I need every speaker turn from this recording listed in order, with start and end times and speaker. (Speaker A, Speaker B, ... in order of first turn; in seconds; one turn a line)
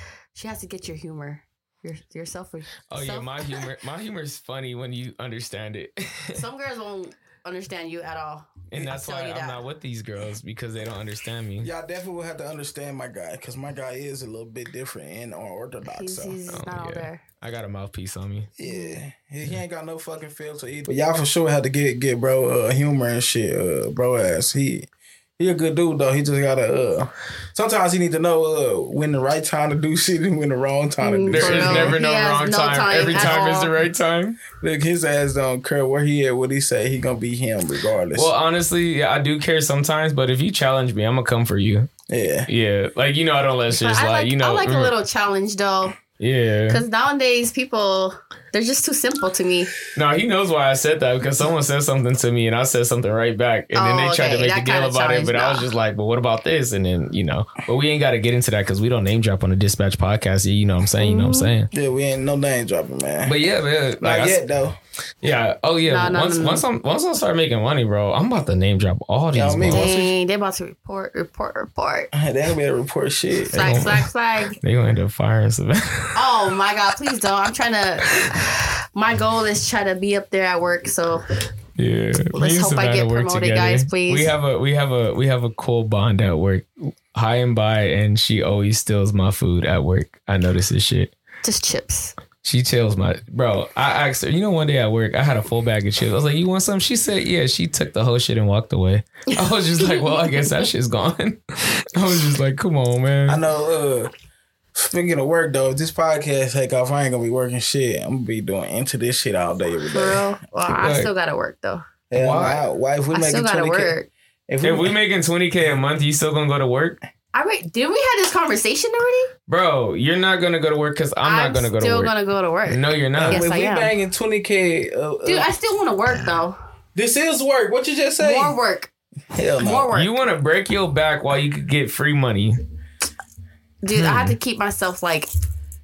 Speaker A: 0.3-3.7
Speaker B: 2.9-6.4
Speaker A: 6.3-9.6
Speaker B: 8.7-11.7
Speaker C: 11.6-16.4
Speaker A: 15.8-17.2
Speaker B: 16.5-18.5
Speaker C: 18.6-32.0
Speaker A: 18.6-19.0
Speaker A: 31.0-33.8
Speaker B: 31.3-34.4
Speaker C: 34.6-38.3
Speaker B: 38.1-41.9
Speaker C: 42.1-42.5
Speaker B: 42.5-44.9
Speaker A: 43.7-46.0
Speaker B: 46.2-46.8
Speaker A: 46.7-49.7
Speaker B: 49.9-61.7
Speaker A: 53.7-55.7
Speaker A: 61.0-61.5
Speaker C: 61.7-63.4
Speaker B: 63.2-64.4
Speaker C: 64.0-64.8
Speaker B: 65.2-69.8
Speaker A: 65.9-66.6
Speaker C: 69.3-70.1
Speaker A: 69.7-72.1
Speaker C: 72.1-73.9
Speaker A: 73.5-74.6
Speaker B: 73.5-74.1
Speaker B: 74.6-76.2
Speaker A: 76.1-81.2
Speaker B: 81.8-91.1
Speaker A: 82.3-84.3
Speaker A: 91.4-92.1
Speaker B: 92.4-103.4
Speaker A: 99.3-100.7
Speaker C: 103.3-104.1
Speaker C: 104.7-110.2
Speaker A: 109.9-111.9
Speaker B: 110.7-111.1
Speaker C: 112.1-113.9
Speaker B: 112.1-112.6
Speaker A: 113.1-114.1
Speaker C: 114.5-115.0
Speaker B: 114.6-117.0
Speaker A: 117.3-119.3
Speaker B: 119.5-122.1
Speaker A: 121.2-123.9
Speaker B: 122.7-123.4
Speaker C: 123.2-125.5
Speaker A: 125.2-126.6
Speaker C: 127.0-128.6
Speaker A: 128.2-128.9
Speaker C: 129.3-129.9
Speaker A: 129.6-130.2
Speaker B: 129.9-132.6
Speaker A: 133.8-135.3
Speaker B: 133.9-134.3